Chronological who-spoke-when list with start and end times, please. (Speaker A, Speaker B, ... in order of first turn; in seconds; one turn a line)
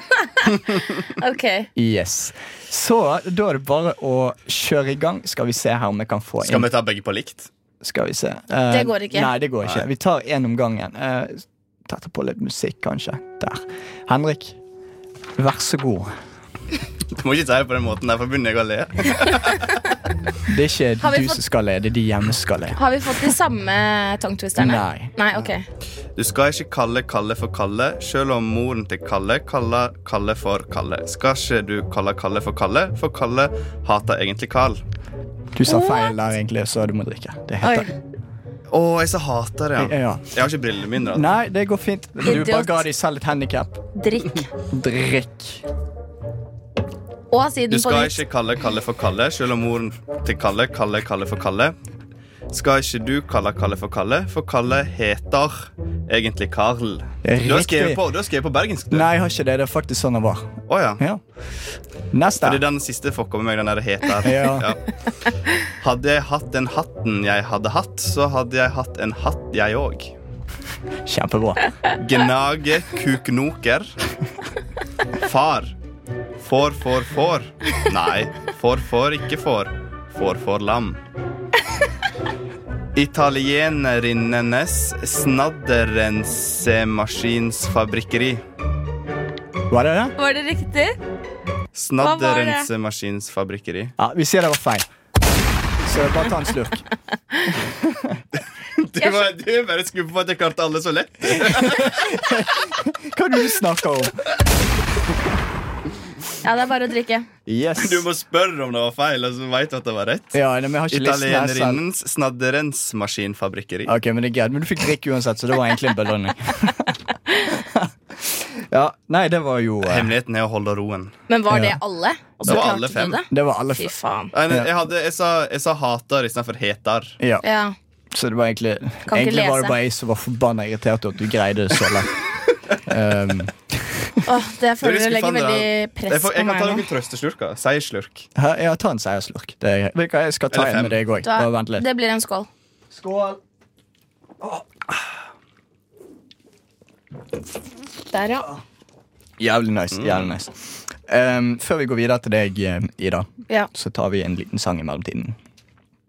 Speaker A: 0.1-1.7
Speaker B: 1.8-6.7
Speaker C: 6.4-7.5
Speaker B: 7.8-14.6
Speaker A: 8.7-9.3
Speaker B: 15.4-16.1
Speaker C: 17.1-19.8
Speaker B: 20.5-23.3
Speaker A: 21.0-21.4
Speaker A: 22.7-25.6
Speaker B: 24.6-25.1
Speaker C: 26.2-34.8
Speaker B: 35.5-37.9
Speaker A: 35.6-36.2
Speaker A: 37.6-37.9
Speaker C: 38.7-41.2
Speaker B: 39.8-40.3
Speaker B: 41.1-43.8
Speaker A: 42.2-42.8
Speaker A: 43.9-44.5
Speaker B: 44.7-45.6
Speaker A: 47.3-48.2
Speaker C: 47.7-51.8
Speaker C: 52.5-59.1
Speaker B: 57.2-58.0
Speaker B: 58.9-61.2
Speaker C: 60.7-61.0
Speaker B: 62.1-62.6
Speaker C: 62.4-64.8
Speaker B: 64.2-64.7
Speaker C: 65.6-70.1
Speaker B: 71.0-71.7
Speaker C: 71.9-73.9
Speaker C: 75.2-75.7
Speaker C: 76.4-81.0
Speaker C: 82.9-88.4
Speaker B: 89.7-90.1
Speaker A: 90.2-91.0
Speaker C: 91.7-93.9
Speaker A: 92.0-92.7
Speaker B: 94.0-94.9
Speaker B: 95.8-96.8
Speaker B: 97.5-98.2
Speaker C: 98.8-102.2
Speaker A: 99.0-99.3
Speaker B: 101.3-104.2
Speaker A: 106.4-107.3
Speaker B: 107.5-108.0
Speaker C: 107.8-113.9
Speaker B: 110.3-111.8
Speaker B: 113.8-120.1
Speaker C: 119.8-121.1
Speaker A: 121.3-124.3
Speaker B: 121.5-121.8
Speaker C: 122.5-123.2
Speaker B: 123.3-123.9
Speaker C: 124.3-127.2
Speaker B: 127.2-127.4
Speaker A: 127.4-127.7
Speaker B: 128.1-132.2
Speaker A: 129.1-129.8
Speaker B: 132.8-134.2
Speaker A: 134.2-136.9
Speaker C: 134.8-138.3
Speaker B: 138.3-141.8
Speaker C: 140.5-141.0
Speaker A: 141.2-142.5
Speaker B: 142.9-143.4
Speaker A: 148.1-148.5
Speaker B: 149.4-155.4
Speaker C: 150.0-150.3